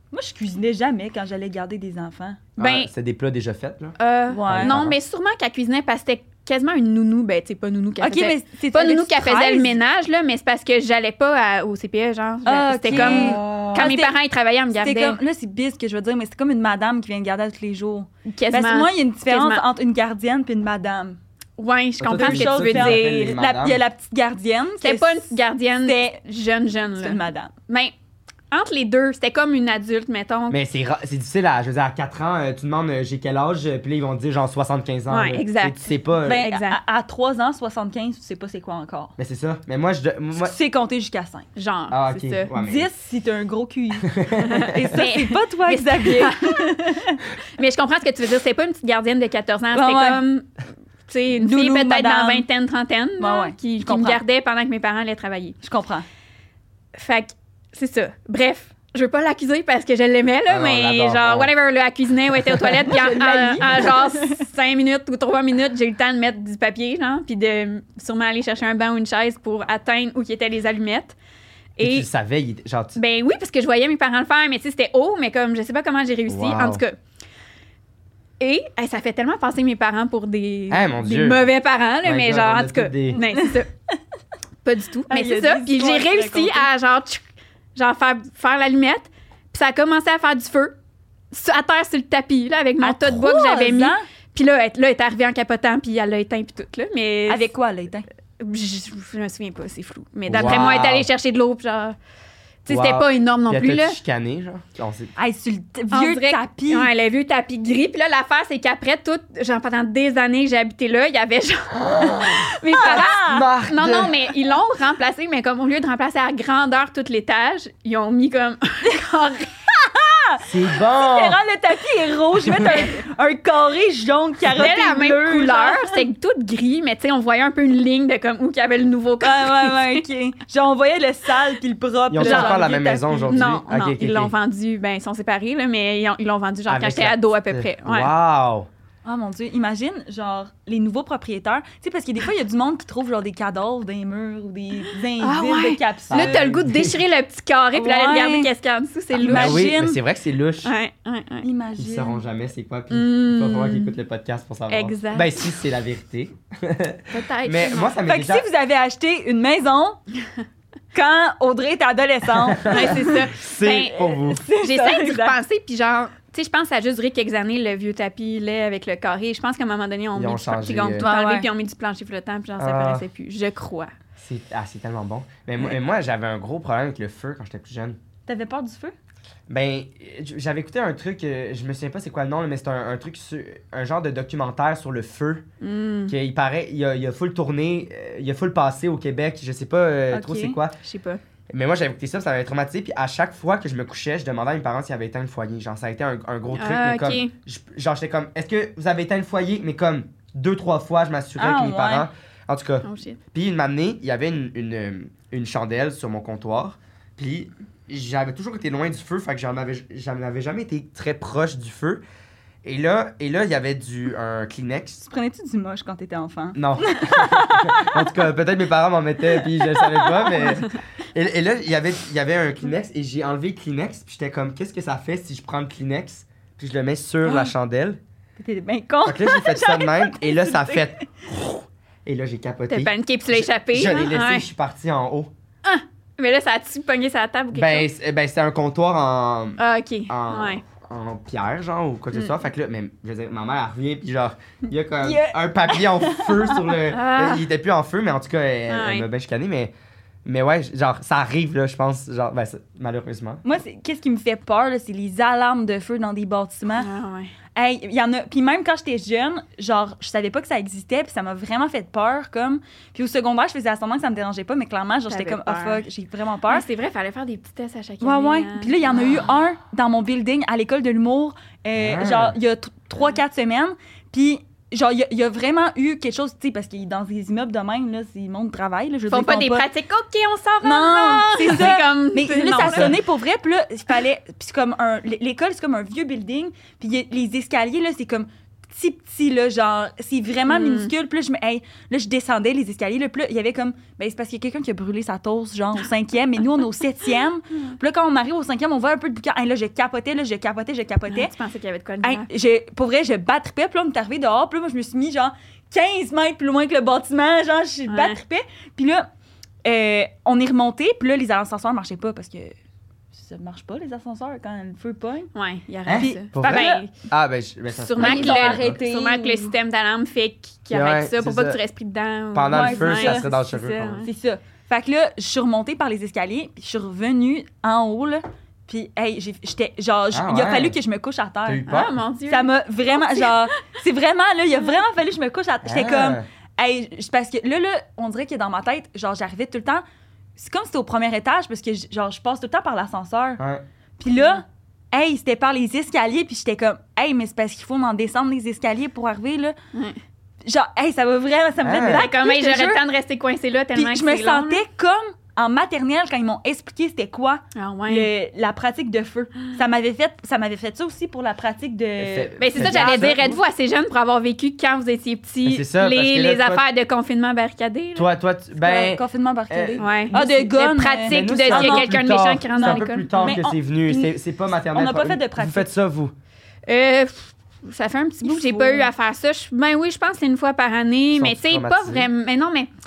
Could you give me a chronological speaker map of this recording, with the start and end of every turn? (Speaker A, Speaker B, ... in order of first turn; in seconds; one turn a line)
Speaker A: 0.1-2.4
Speaker B: 2.6-2.9
Speaker C: 2.6-5.0
Speaker B: 4.0-15.2
Speaker A: 4.3-4.8
Speaker A: 8.0-9.8
Speaker A: 12.4-14.1
Speaker C: 12.9-13.9
Speaker A: 14.8-21.2
Speaker B: 18.3-19.6
Speaker B: 21.6-23.4
Speaker C: 22.0-23.8
Speaker A: 22.1-26.2
Speaker B: 24.8-27.9
Speaker A: 27.0-27.5
Speaker B: 28.5-30.6
Speaker C: 30.5-36.5
Speaker B: 35.1-36.8
Speaker A: 36.2-39.1
Speaker C: 39.2-40.5
Speaker A: 40.4-41.5
Speaker B: 41.5-42.5
Speaker C: 41.9-42.9
Speaker A: 42.5-44.1
Speaker C: 44.0-44.7
Speaker B: 44.4-46.9
Speaker A: 44.7-47.2
Speaker B: 47.6-50.5
Speaker A: 49.7-50.2
Speaker B: 51.1-55.6
Speaker A: 51.4-52.5
Speaker A: 53.2-54.2
Speaker A: 55.6-56.0
Speaker B: 56.9-71.2
Speaker C: 60.5-61.5
Speaker A: 62.8-64.4
Speaker B: 71.8-72.1
Speaker C: 71.8-73.0
Speaker B: 73.0-77.0
Speaker C: 76.3-76.8
Speaker B: 78.4-83.7
Speaker C: 80.7-81.4
Speaker C: 82.0-83.2
Speaker A: 83.3-83.6
Speaker B: 84.6-87.2
Speaker A: 85.1-86.7
Speaker B: 87.8-90.7
Speaker B: 91.3-97.5
Speaker A: 92.8-94.0
Speaker A: 97.3-98.0
Speaker B: 98.4-102.0
Speaker C: 100.3-101.1
Speaker B: 102.7-104.0
Speaker C: 102.7-105.1
Speaker A: 105.2-106.9
Speaker B: 105.9-119.5
Speaker C: 111.7-114.2
Speaker A: 112.7-113.5
Speaker A: 119.7-126.0
Speaker C: 120.4-121.4
Speaker C: 122.4-122.9
Speaker B: 124.5-130.0
Speaker A: 129.2-133.4
Speaker C: 132.1-134.3
Speaker B: 132.2-132.7
Speaker B: 133.3-138.1
Speaker C: 136.7-138.7
Speaker A: 139.0-146.4
Speaker B: 145.2-149.7
Speaker C: 146.1-147.0
Speaker A: 147.7-148.5
Speaker A: 149.1-150.0
Speaker C: 149.2-150.7
Speaker B: 150.6-151.4
Speaker A: 151.4-152.2
Speaker C: 151.8-158.4
Speaker B: 152.9-153.9
Speaker B: 154.7-155.4
Speaker B: 157.1-158.0
Speaker A: 158.1-160.0
Speaker A: 160.9-163.1
Speaker C: 162.6-164.4
Speaker B: 162.6-173.9
Speaker A: 163.9-165.4
Speaker C: 170.2-171.1
Speaker A: 171.0-171.5
Speaker C: 172.6-173.0
Speaker C: 174.2-178.0
Speaker A: 178.3-178.9
Speaker C: 179.5-185.4
Speaker B: 185.6-186.1
Speaker C: 186.1-190.8
Speaker A: 190.1-190.6
Speaker B: 190.8-191.2
Speaker C: 191.5-212.0
Speaker B: 196.6-197.3
Speaker A: 201.4-202.1
Speaker B: 202.8-203.2
Speaker C: 212.6-215.0
Speaker A: 215.1-218.2
Speaker C: 216.5-228.0
Speaker A: 219.3-220.6
Speaker A: 227.2-227.5
Speaker A: 228.4-230.9
Speaker C: 229.0-235.3
Speaker B: 232.7-234.4
Speaker B: 235.6-237.9
Speaker C: 237.5-249.7
Speaker B: 239.6-240.6
Speaker A: 245.0-246.8
Speaker B: 246.9-247.4
Speaker B: 248.7-249.1
Speaker C: 250.2-253.4
Speaker A: 253.4-256.9
Speaker B: 256.8-257.3
Speaker A: 257.5-266.6
Speaker B: 265.1-265.8
Speaker B: 266.5-269.0
Speaker A: 268.0-279.6
Speaker C: 271.8-272.4
Speaker B: 279.1-283.0
Speaker A: 280.6-301.3
Speaker C: 282.5-283.0
Speaker B: 290.5-290.9
Speaker B: 301.1-302.3
Speaker A: 302.0-309.1
Speaker B: 307.9-308.2
Speaker A: 309.6-312.5
Speaker A: 313.1-315.3
Speaker B: 315.3-316.9
Speaker C: 315.9-318.8
Speaker A: 315.9-316.8
Speaker B: 317.8-324.1
Speaker A: 318.0-319.5
Speaker C: 320.7-321.6
Speaker C: 322.3-324.0
Speaker A: 322.5-323.2
Speaker A: 324.0-331.6
Speaker C: 330.1-330.8
Speaker C: 331.4-332.0
Speaker B: 331.7-333.3
Speaker A: 332.3-339.8
Speaker C: 335.6-336.2
Speaker A: 340.4-343.4
Speaker A: 344.0-349.5
Speaker A: 350.4-352.8
Speaker C: 351.6-352.1
Speaker B: 351.9-354.6
Speaker A: 353.7-363.3
Speaker B: 357.5-358.1
Speaker C: 362.0-363.4
Speaker B: 362.4-368.1
Speaker C: 365.4-366.6
Speaker C: 367.9-370.3
Speaker A: 368.6-372.0
Speaker B: 369.8-373.4
Speaker C: 371.1-376.1
Speaker A: 372.5-374.1
Speaker A: 374.7-375.7
Speaker B: 376.7-382.7
Speaker A: 378.2-378.9
Speaker C: 381.1-382.1